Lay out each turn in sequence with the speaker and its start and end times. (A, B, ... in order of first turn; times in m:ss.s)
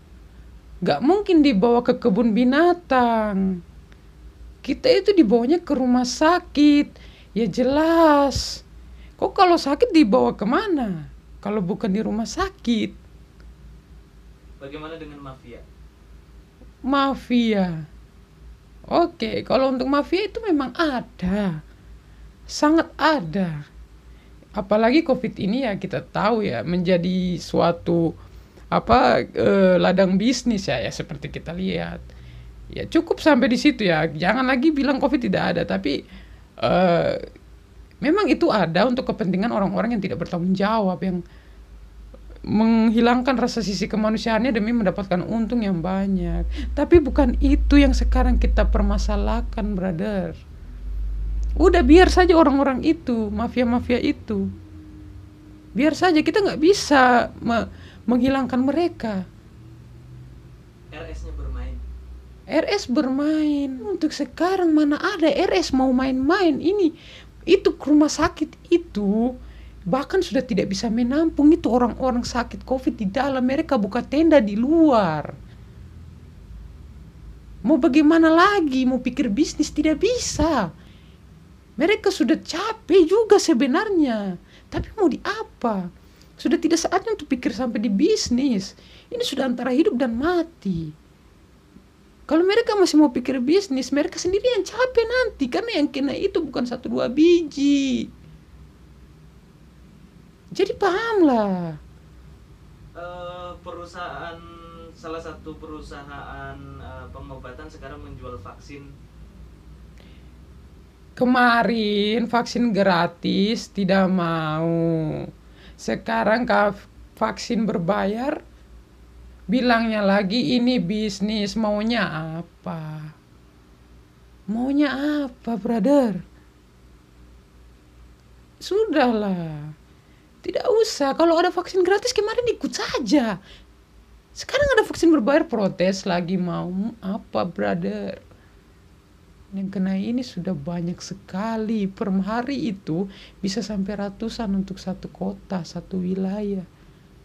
0:00.8-0:03.6 A
0:04.6-0:08.6 A
0:09.2-0:13.0 A
0:14.6-0:15.6 B
0:16.9-0:17.8 A
0:18.9-0:21.5 A
0:22.5-0:23.5 A
0:24.6-0:28.1 A
0:28.7-0:32.0 A
0:32.7-0:35.9 A
0:36.6-0:37.2 A
0:38.0-0:41.2 A
0:42.5-0:50.4 A
0:51.6-0:54.5 A
0:55.7-0:59.2 A
1:00.9-1:01.8 B
1:02.5-1:06.9 A
1:07.5-1:09.3 A
1:09.9-1:15.3 A
1:17.6-1:20.7 A
1:21.8-1:25.8 A
1:26.4-1:30.9 A
1:32.3-1:38.0 A
1:40.5-1:41.7 A
1:43.0-1:44.4 B
1:45.0-1:48.9 B
1:51.2-1:55.3 A
1:55.8-1:58.4 A
1:59.5-2:03.1 A
2:04.5-2:06.2 A
2:08.6-2:09.7 A
2:10.4-2:13.4 A
2:14.4-2:18.2 A
2:19.5-2:26.6 A